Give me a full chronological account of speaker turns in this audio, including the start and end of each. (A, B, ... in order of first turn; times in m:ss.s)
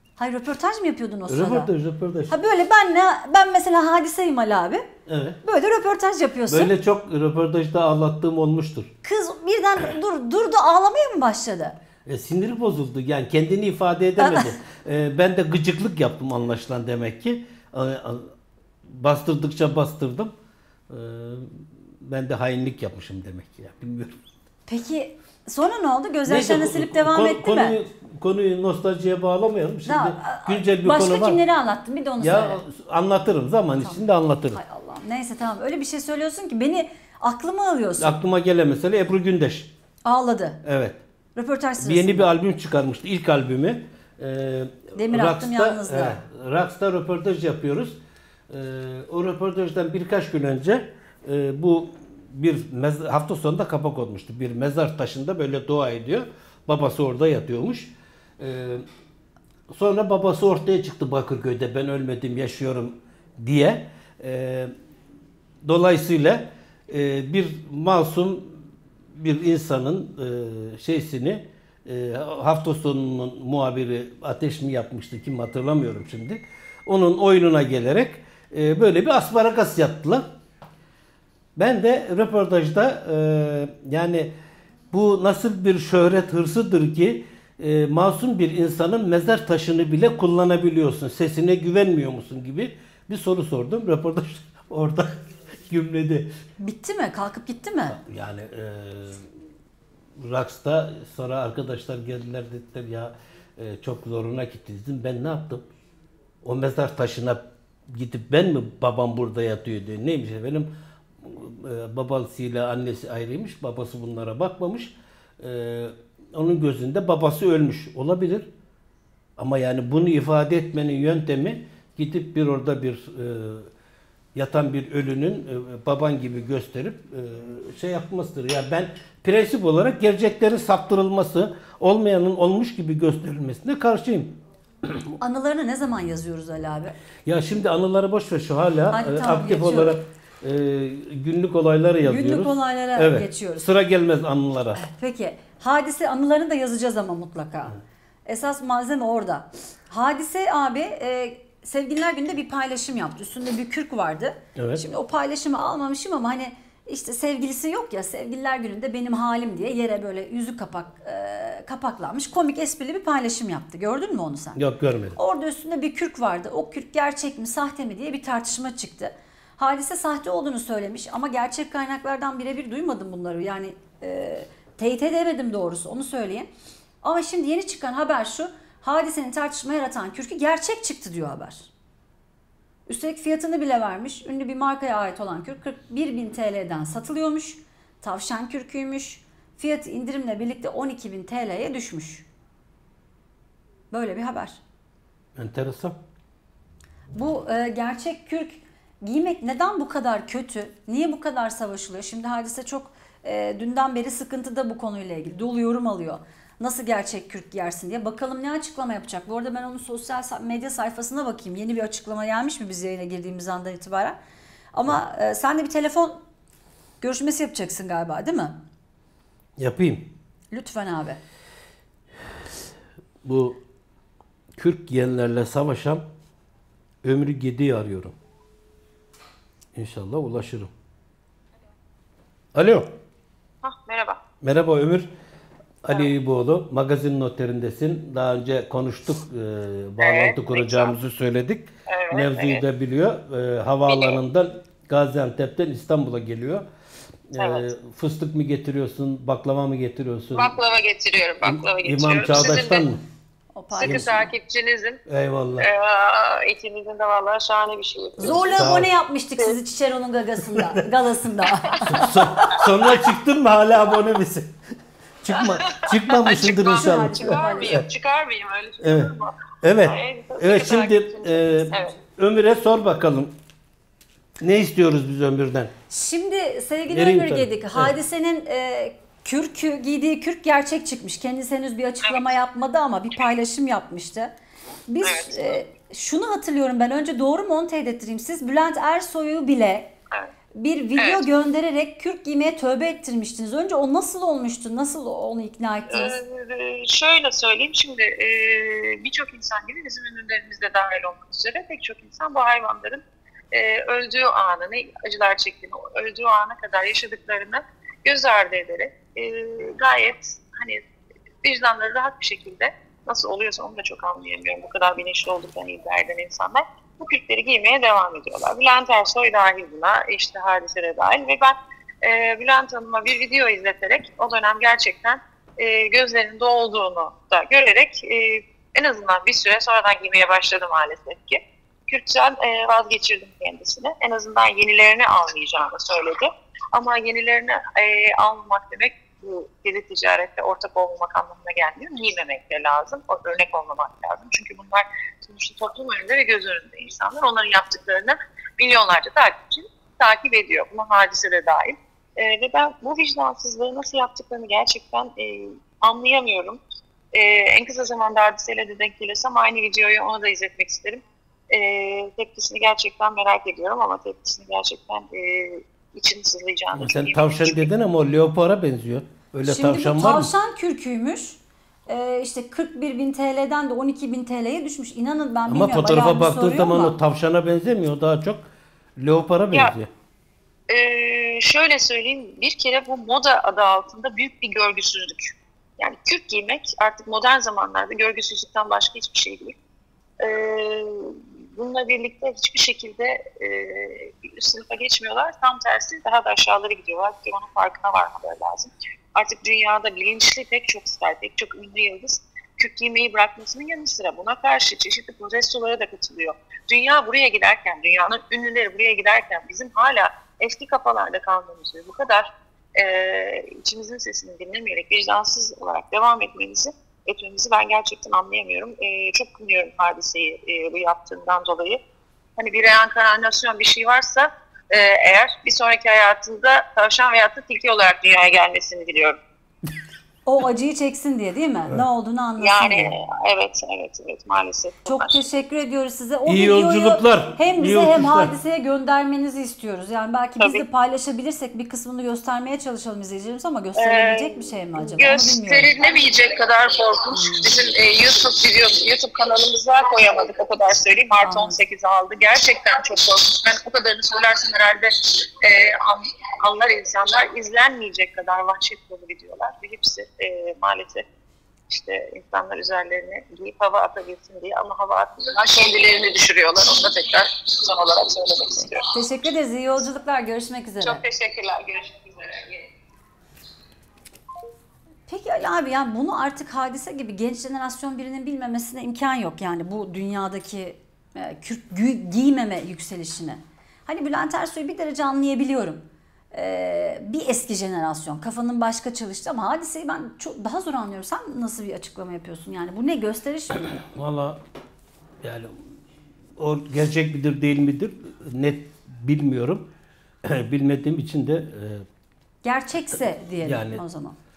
0:00.2-0:01.7 A
0:01.3-0:02.3 B
0:02.3-0:04.8 A
0:05.1-0:05.4 B
0:05.4-0:06.7 A
0:06.5-0:08.9 B
0:09.0-0:11.8 A
0:12.1-0:18.3 B
0:14.2-0:14.5 A
0:18.9-0:20.3 B
0:20.9-0:24.2 B
0:24.7-0:27.8 A
0:26.2-0:31.4 B
0:29.8-0:32.6 A
0:32.2-0:34.6 B
0:33.8-0:38.1 A
0:38.0-0:39.7 B
0:40.0-0:40.6 A
0:40.6-0:41.0 B
0:41.3-0:42.3 A
0:41.8-0:48.0 B
0:44.9-0:46.2 A
0:48.5-0:58.8 B
0:59.7-1:04.7 B
1:05.6-1:08.6 B
1:09.2-1:20.2 B
1:21.6-1:24.3 B
1:24.9-1:35.1 B
1:35.7-1:36.3 B
1:36.6-1:38.0 A
1:37.9-1:39.3 B
1:40.2-1:45.7 B
1:46.4-1:50.7 B
1:51.2-1:58.5 B
1:59.4-2:03.7 B
2:04.3-2:14.4 B
2:15.2-2:17.0 A
2:17.2-2:24.8 B
2:18.9-2:20.0 A
2:22.0-2:23.6 A
2:24.8-2:44.6 A
2:34.6-2:34.8 B
2:44.6-2:45.2 B
2:45.2-2:56.5 A
2:57.0-3:01.7 A
3:02.9-3:12.2 A
3:13.9-3:14.6 A
3:15.4-3:16.0 B
3:17.1-3:34.2 A
3:34.7-3:36.2 A
3:37.0-3:38.6 A
3:39.6-3:40.1 B
3:40.5-3:41.2 A
3:43.2-3:43.6 B
3:44.6-3:46.0 B
3:47.0-3:48.1 B
3:49.8-3:50.7 B
3:52.6-3:52.9 B
3:53.6-3:54.2 C
3:54.4-3:55.1 B
3:55.8-4:06.6 B
4:00.0-4:00.9 C
4:01.9-4:02.6 C
4:03.9-4:04.2 C
4:07.3-4:10.6 B
4:07.4-4:07.7 C
4:10.3-4:12.9 C
4:11.4-4:13.0 B
4:13.6-4:14.1 A
4:13.7-4:15.0 C
4:13.8-4:14.3 B
4:15.1-4:15.7 B
4:15.6-4:18.7 C
4:18.2-4:22.7 A
4:18.2-4:18.9 B
4:21.9-4:24.5 B
4:25.2-4:27.8 B
4:25.3-4:32.0 C
4:26.6-4:27.9 A
4:28.8-4:33.3 B
4:34.4-4:35.7 B
4:35.9-4:44.3 A
4:36.9-4:37.9 B
4:42.0-4:42.3 C
4:44.9-4:49.9 A
4:45.0-4:45.6 C
4:50.6-4:56.2 A
4:51.0-4:51.2 C
4:55.9-5:10.8 C
5:11.4-5:56.6 C
5:57.1-6:07.7 C
6:06.7-6:10.3 B
6:09.4-6:17.0 A
6:15.5-6:18.4 B
6:19.0-6:19.9 B
6:20.7-6:29.6 C
6:30.2-7:01.8 C
7:02.4-7:09.2 C
7:10.2-7:12.9 A
7:12.4-7:15.2 C
7:14.8-7:25.7 A
7:16.2-7:18.4 B
7:20.4-7:20.6 C
7:23.8-7:41.1 C
7:27.1-7:27.5 A
7:31.2-7:31.6 A
7:41.7-7:48.8 C
7:48.8-7:51.0 A
7:50.8-7:52.7 C
7:55.1-8:13.7 A
8:13.9-8:14.4 B
8:15.2-8:15.5 B
8:16.4-8:19.7 B
8:20.2-8:21.8 B
8:22.4-8:24.2 A
8:23.4-8:23.8 B